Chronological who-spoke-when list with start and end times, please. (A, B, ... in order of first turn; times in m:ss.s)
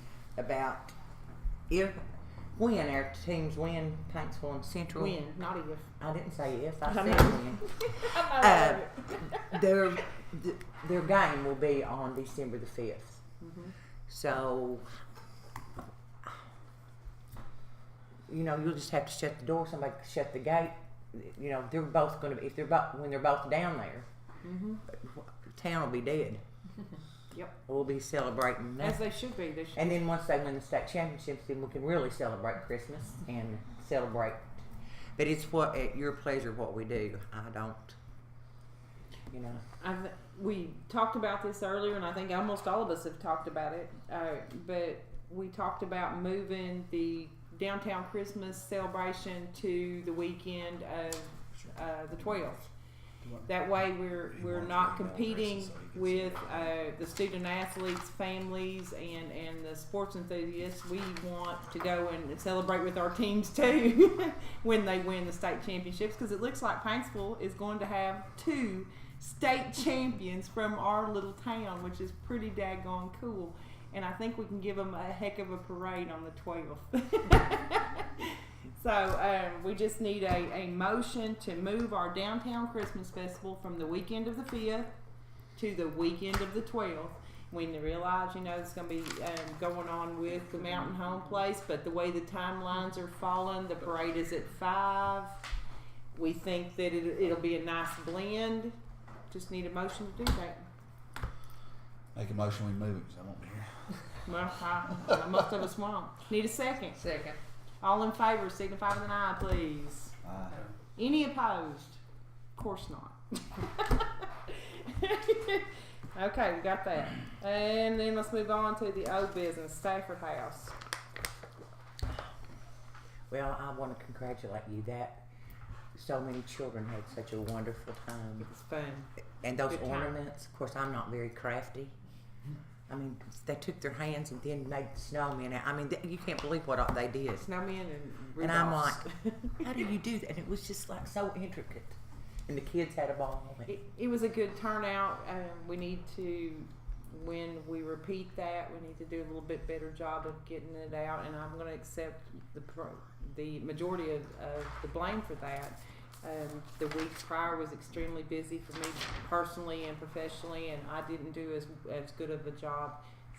0:00.4-0:00.9 A
0:01.7-0:02.0 A
0:02.6-0:05.2 A
0:05.0-0:05.9 B
0:06.0-0:13.2 A
0:06.8-0:09.8 B
0:13.4-0:13.7 B
0:14.1-0:14.9 A
0:18.3-0:24.0 A
0:24.4-0:24.8 B
0:24.9-0:26.4 A
0:27.3-0:27.6 B
0:27.6-0:29.1 A
0:28.8-0:30.0 B
0:29.7-0:34.6 A
0:35.2-0:38.0 A
0:39.3-0:39.6 A
0:39.8-0:52.7 B
0:53.4-1:24.9 B
0:54.2-0:56.8 C
1:25.6-1:35.4 B
1:36.1-1:38.7 B
1:39.3-1:40.6 B
1:42.2-1:43.6 C
1:44.2-1:47.0 B
1:47.8-1:50.1 B
1:50.3-1:50.5 C
1:51.0-1:52.0 B
1:52.6-2:00.8 B
2:03.3-2:05.2 A
2:05.9-2:08.5 A
2:08.4-2:09.1 B
2:09.4-2:11.9 A
2:09.7-2:10.2 B
2:12.9-2:17.5 A
2:17.4-2:19.8 B
2:18.4-2:19.0 A
2:19.6-2:23.7 A
2:23.6-2:43.0 B